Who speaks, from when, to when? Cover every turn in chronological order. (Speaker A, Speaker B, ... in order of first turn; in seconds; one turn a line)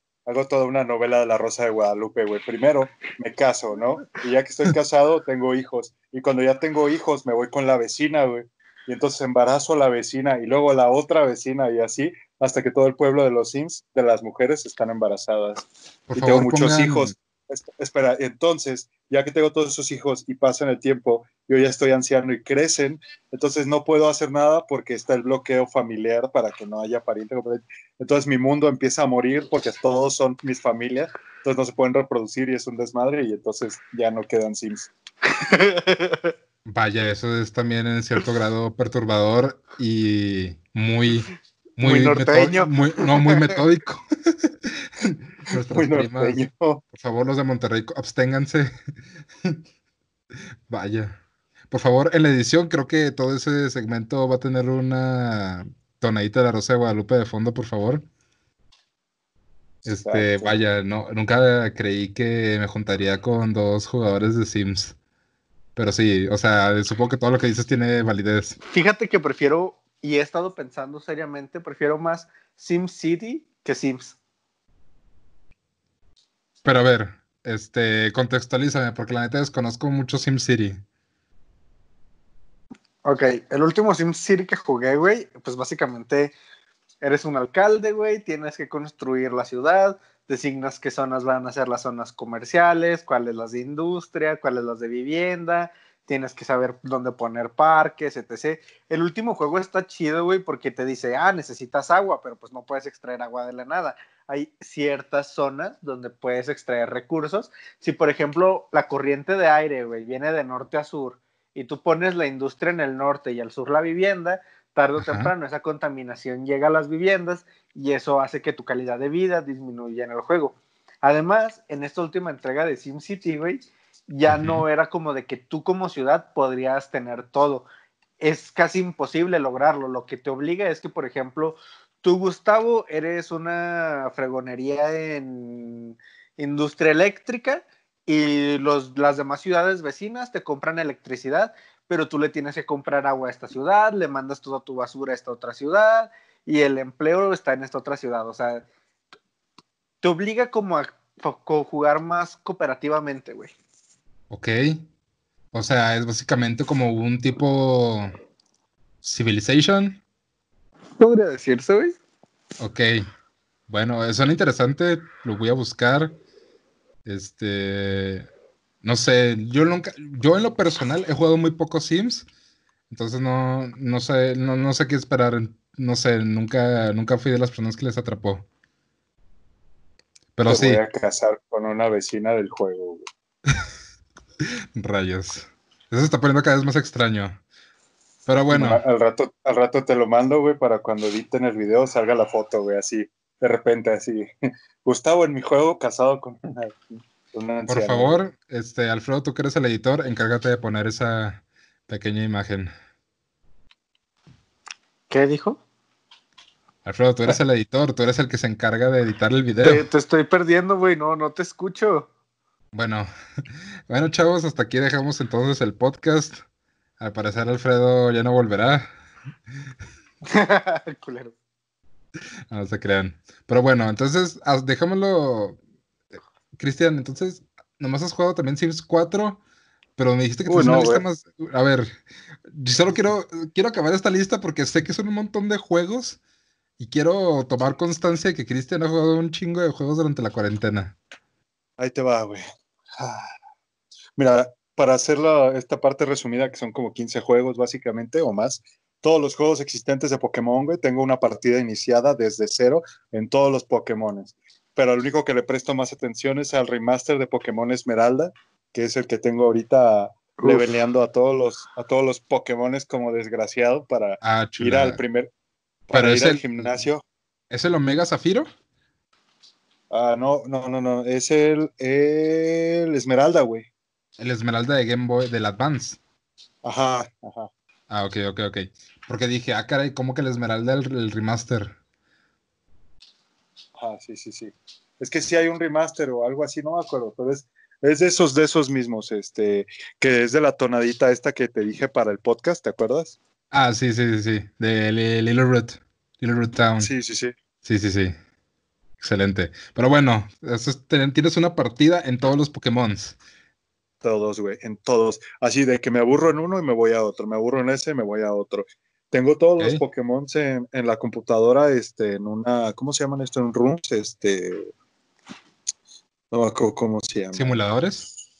Speaker A: 0.2-34.9
Speaker B: 16.1-17.1
Speaker C: 35.3-36.3
Speaker B: 36.6-46.4
Speaker C: 41.8-43.6
Speaker A: 45.7-46.8
Speaker B: 46.9-48.8
Speaker B: 50.7-51.2
Speaker B: 51.7-58.0
Speaker B: 59.9-65.0
Speaker A: 59.9-60.6
Speaker B: 65.8-68.6
Speaker C: 68.7-74.2
Speaker B: 76.6-80.8
Speaker C: 83.0-86.3
Speaker C: 87.0-127.7
Speaker B: 115.0-115.3
Speaker B: 124.3-124.6
Speaker C: 128.2-148.6
Speaker C: 150.0-153.5
Speaker B: 154.3-154.8
Speaker B: 155.5-158.1
Speaker B: 159.0-160.0
Speaker C: 161.0-162.0
Speaker B: 162.6-163.1
Speaker B: 163.7-166.2
Speaker B: 167.0-168.3
Speaker B: 168.8-172.2
Speaker B: 172.9-178.5
Speaker B: 180.4-180.8
Speaker A: 180.5-183.1
Speaker B: 184.8-187.4
Speaker B: 188.3-188.8
Speaker A: 188.5-194.3
Speaker A: 194.8-198.2
Speaker B: 197.7-202.7
Speaker C: 205.1-205.6
Speaker B: 206.8-209.8
Speaker C: 209.6-212.1
Speaker B: 212.7-213.1
Speaker B: 213.9-216.4
Speaker B: 217.0-218.9
Speaker C: 220.2-221.3
Speaker B: 222.5-225.6
Speaker B: 226.1-229.4
Speaker B: 230.0-231.9
Speaker A: 230.5-231.0
Speaker B: 232.5-236.2
Speaker B: 236.8-241.0
Speaker A: 241.8-242.4
Speaker A: 243.0-243.3
Speaker A: 244.2-265.3
Speaker C: 260.4-260.7
Speaker B: 264.2-265.0
Speaker A: 265.9-267.0
Speaker B: 265.9-266.7
Speaker B: 267.5-268.5
Speaker A: 269.9-273.7
Speaker B: 274.2-276.0
Speaker A: 276.6-277.5
Speaker B: 277.9-281.8
Speaker A: 283.8-293.2
Speaker B: 293.5-296.9
Speaker A: 296.8-297.3
Speaker B: 297.6-298.1
Speaker B: 299.0-303.2
Speaker A: 304.0-314.7
Speaker A: 316.3-317.5
Speaker B: 317.3-318.1